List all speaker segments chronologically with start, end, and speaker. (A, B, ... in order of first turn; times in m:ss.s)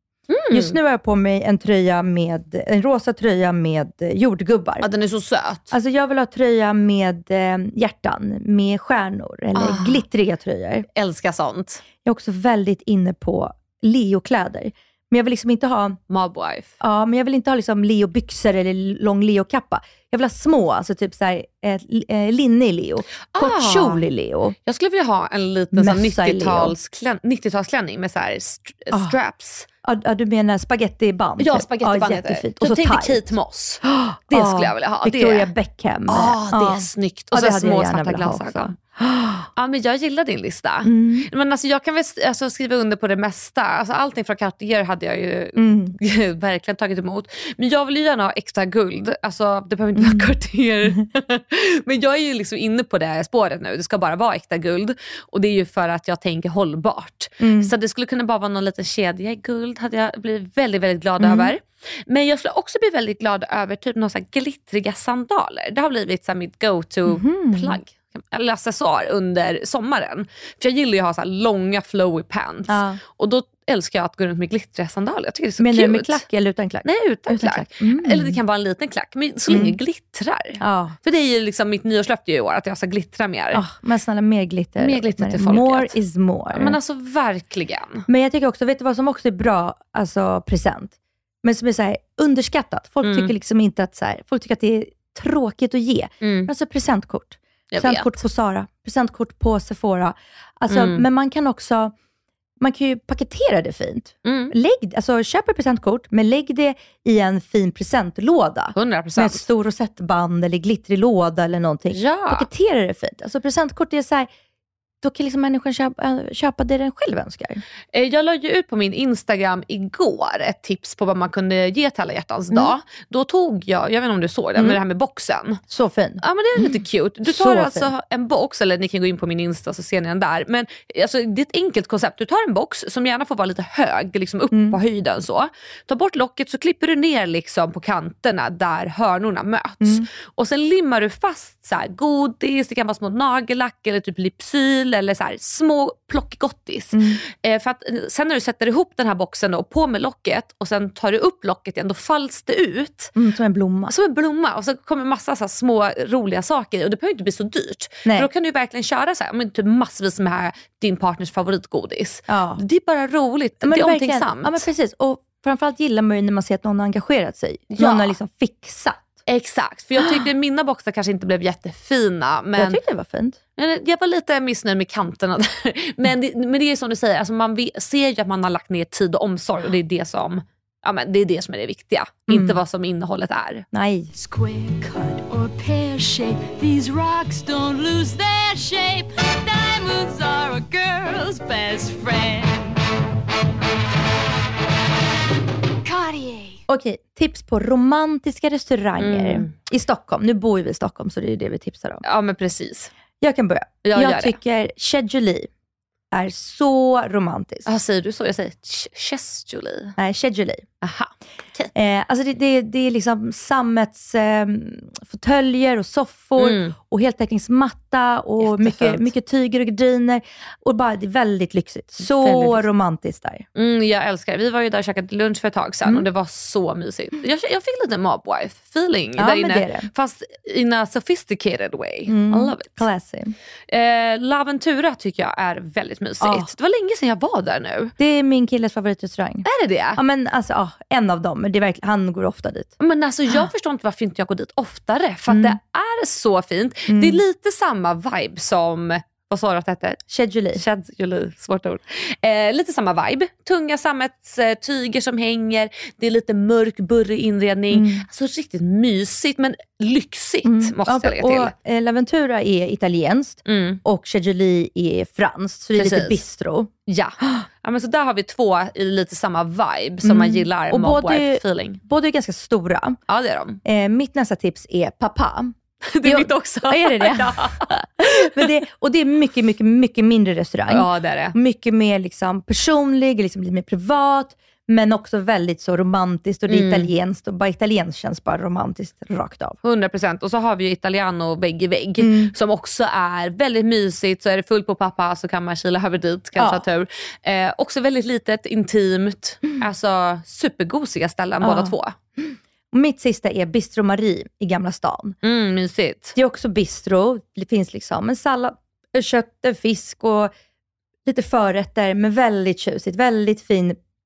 0:00.3-0:00.8 A
0:00.5-0:04.9 B
0:04.8-0:05.7 A
0:05.7-0:10.9 B
0:09.6-0:10.0 A
0:11.0-0:11.8 A
0:12.0-0:16.0 B
0:16.1-0:16.7 A
0:16.8-0:24.6 B
0:23.3-0:24.0 A
0:24.7-0:29.7 A
0:25.7-0:26.8 B
0:29.8-0:39.5 B
0:31.4-0:35.5 A
0:36.1-0:38.8 A
0:39.6-1:16.2 A
0:40.8-0:41.3 B
0:45.6-0:46.0 B
0:50.0-0:50.3 B
0:57.4-0:57.7 B
1:01.2-1:01.5 B
1:07.1-1:07.8 B
1:12.7-1:13.0 B
1:15.6-1:18.4 B
1:16.8-1:23.6 A
1:19.5-1:19.8 B
1:20.6-1:21.0 B
1:23.5-1:26.8 B
1:24.8-1:26.0 A
1:26.5-1:28.1 A
1:28.1-1:41.9 B
1:33.0-1:33.3 A
1:36.2-1:36.5 A
1:37.7-1:38.2 A
1:40.7-1:41.1 A
1:42.6-1:54.3 B
1:44.2-1:44.5 A
1:48.8-1:49.5 A
1:51.9-1:52.5 A
1:55.0-1:57.6 B
1:57.9-2:05.6 A
2:05.7-2:07.9 B
2:06.2-2:33.1 A
2:14.5-2:14.8 B
2:19.8-2:20.1 B
2:26.9-2:27.2 B
2:33.2-2:33.9 B
2:33.9-2:44.7 A
2:42.3-2:42.6 B
2:43.6-2:49.1 B
2:47.7-2:48.2 A
2:49.3-2:52.8 A
2:50.0-2:50.2 B
2:52.6-2:53.4 B
2:53.6-3:03.6 A
3:02.3-3:02.6 B
3:03.7-3:04.1 B
3:04.1-3:12.8 C
3:15.8-3:16.6 C
3:16.7-3:22.0 B
3:19.0-3:19.5 A
3:22.0-3:22.9 A
3:23.2-3:25.5 B
3:23.8-3:24.4 A
3:26.1-3:27.7 B
3:27.7-3:30.0 A
3:30.0-3:30.7 B
3:30.8-3:31.7 A
3:31.7-3:43.5 B
3:36.4-3:36.8 A
3:38.4-3:39.1 A
3:42.0-3:42.6 A
3:43.6-3:52.8 A
3:49.2-3:49.9 B
3:52.1-3:53.4 B
3:53.7-3:57.9 A
3:56.2-3:56.5 B
3:58.0-3:59.4 B
3:59.4-4:00.0 A
4:00.0-4:02.8 B
4:02.8-4:10.0 A
4:05.3-4:05.6 B
4:06.9-4:07.2 B
4:10.1-4:10.6 B
4:10.5-4:21.5 A
4:17.7-4:18.1 B
4:20.4-4:27.4 B
4:23.5-4:23.8 A
4:25.7-4:26.2 A
4:26.9-4:31.8 A
4:30.0-4:33.0 B
4:33.1-4:33.6 A
4:33.6-4:49.6 B
4:35.9-4:38.5 A
4:40.7-4:41.4 A
4:46.5-4:46.9 A
4:49.6-5:02.0 A
4:52.0-4:52.3 B
4:56.4-4:56.6 B
5:01.4-5:05.2 B
5:05.2-5:06.2 A
5:06.2-5:10.3 B
5:11.1-5:13.8 B